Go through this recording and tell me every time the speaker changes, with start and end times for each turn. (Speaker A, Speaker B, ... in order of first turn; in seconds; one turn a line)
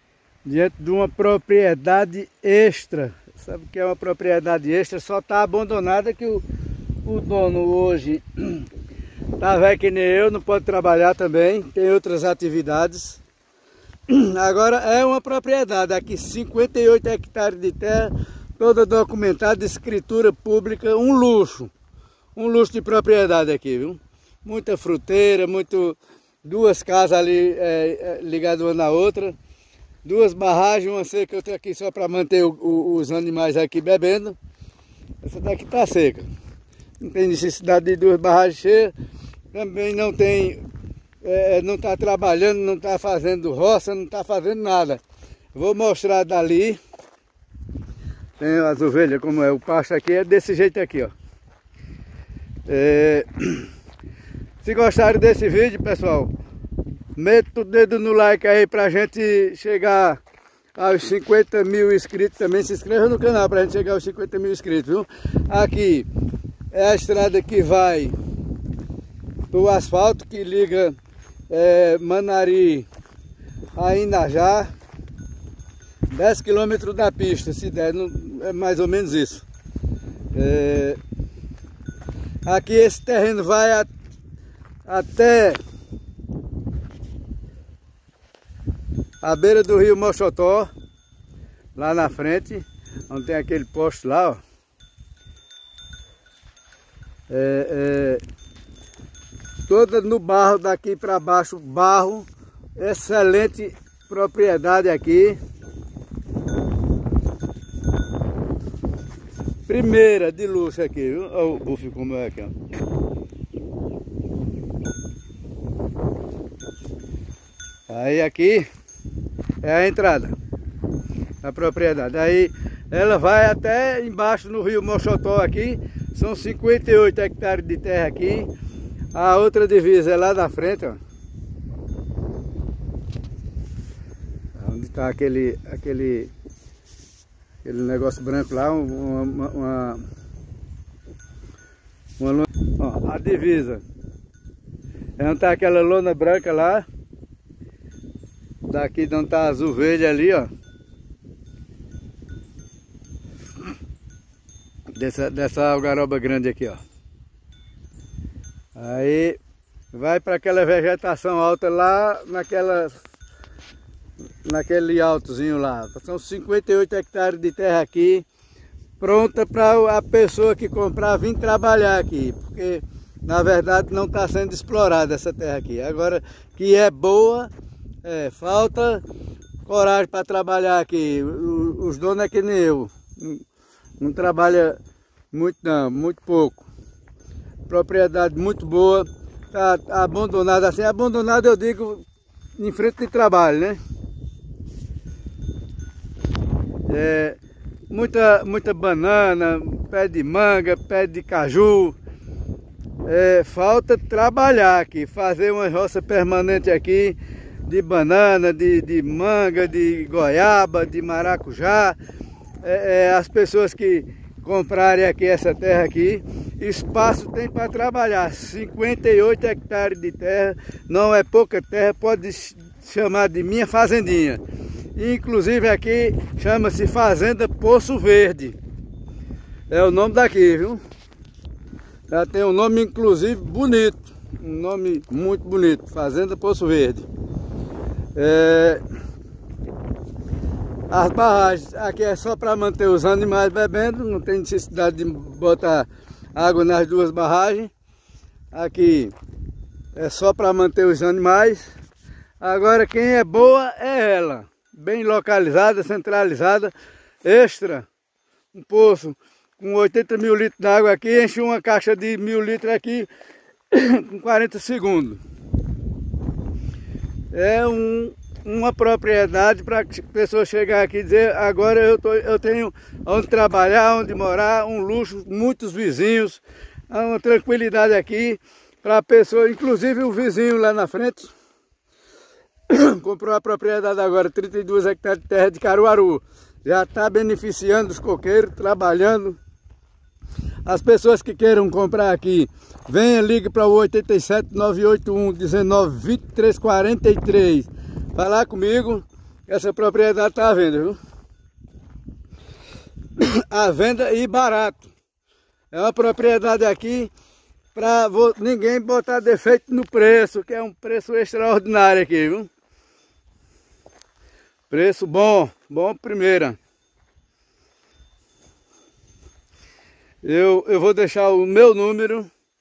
Speaker A: 0.4-6.5
Speaker A: 7.0-8.7
Speaker A: 9.4-13.2
Speaker A: 14.1-21.7
Speaker A: 22.4-29.3
Speaker A: 30.0-34.4
Speaker A: 35.2-36.3
Speaker A: 37.0-38.9
Speaker A: 39.5-40.6
Speaker A: 41.2-45.0
Speaker A: 45.5-46.8
Speaker A: 48.4-51.1
Speaker A: 52.6-53.7
Speaker A: 54.6-56.3
Speaker A: 57.1-60.2
Speaker A: 60.8-66.1
Speaker A: 66.7-68.2
Speaker A: 69.5-71.0
Speaker A: 71.5-72.9
Speaker A: 73.7-74.7
Speaker A: 76.1-79.4
Speaker A: 80.3-81.0
Speaker A: 82.4-83.9
Speaker A: 84.8-85.6
Speaker A: 89.2-90.7
Speaker A: 91.8-94.4
Speaker A: 97.3-98.2
Speaker A: 99.7-105.4
Speaker A: 109.7-112.5
Speaker A: 117.9-118.7
Speaker A: 119.6-120.3
Speaker A: 121.4-128.5
Speaker A: 129.1-131.0
Speaker A: 134.5-136.3
Speaker A: 137.6-140.0
Speaker A: 142.2-143.8
Speaker A: 145.2-146.8
Speaker A: 148.6-150.5
Speaker A: 154.9-156.8
Speaker A: 158.7-159.4
Speaker A: 159.9-163.0
Speaker A: 164.4-168.2
Speaker A: 169.0-177.5
Speaker A: 178.0-179.0
Speaker A: 179.7-183.4
Speaker A: 184.0-184.8
Speaker A: 185.3-186.6
Speaker A: 187.7-192.1
Speaker A: 192.6-193.8
Speaker A: 196.9-197.4
Speaker A: 197.9-201.9
Speaker A: 203.0-212.0
Speaker A: 212.6-224.4
Speaker A: 224.9-228.6
Speaker A: 229.7-230.8
Speaker A: 232.1-237.1
Speaker A: 238.1-238.8
Speaker A: 240.9-247.7
Speaker A: 248.5-249.1
Speaker A: 249.9-251.7
Speaker A: 252.4-256.7
Speaker A: 257.2-257.9
Speaker A: 258.5-263.1
Speaker A: 263.7-265.2
Speaker A: 267.3-281.3
Speaker A: 282.7-289.4
Speaker A: 290.6-301.0
Speaker A: 303.2-304.9
Speaker A: 305.7-307.1
Speaker A: 307.7-312.5
Speaker A: 314.7-316.6
Speaker A: 320.2-322.3